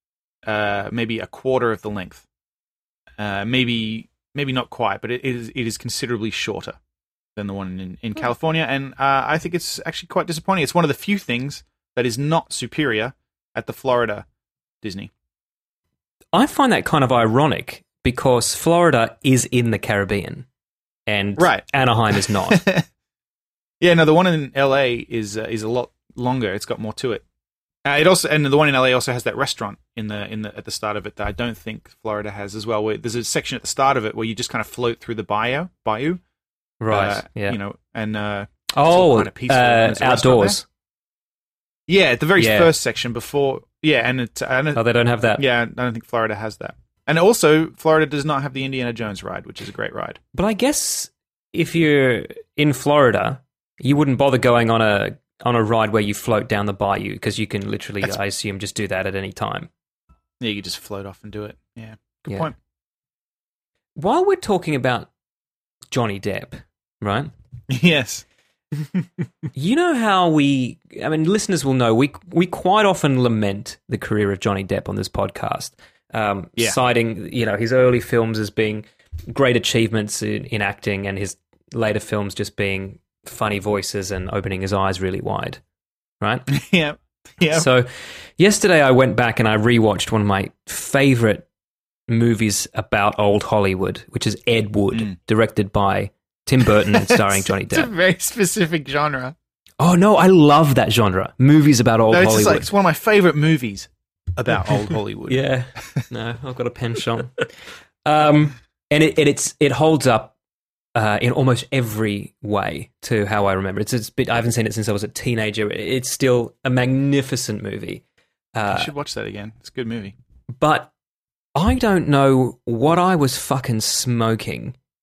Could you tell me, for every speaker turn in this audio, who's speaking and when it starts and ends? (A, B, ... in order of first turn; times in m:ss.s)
0:00.4-0:02.2 A
0:03.2-0:06.8 A
0:07.4-0:14.2 A
0:14.8-0:15.1 A
0:16.3-0:20.4 B
0:21.1-0:22.6 B
0:21.4-0:22.8 A
0:23.8-0:27.2 A
0:27.8-0:36.2 A
0:36.8-0:37.6 B
0:36.9-0:40.6 A
0:38.7-0:40.6 B
0:41.9-0:44.8 A
0:42.4-0:42.7 B
0:44.7-0:45.4 B
0:45.4-0:50.2 A
0:50.3-0:59.7 B
1:00.4-1:02.5 A
1:04.0-1:05.1 B
1:05.9-1:07.3 B
1:07.7-1:08.2 A
1:09.5-1:25.6 B
1:26.2-1:26.5 B
1:26.5-1:27.7 A
1:27.5-1:31.5 B
1:32.1-1:37.9 B
1:36.9-1:39.3 A
1:39.8-1:42.7 B
1:42.1-1:46.0 A
1:45.3-1:47.5 B
1:48.0-1:50.3 B
1:50.9-1:58.0 B
1:58.5-1:58.9 B
1:58.7-2:00.1 A
2:00.6-2:00.9 B
2:01.5-2:04.8 B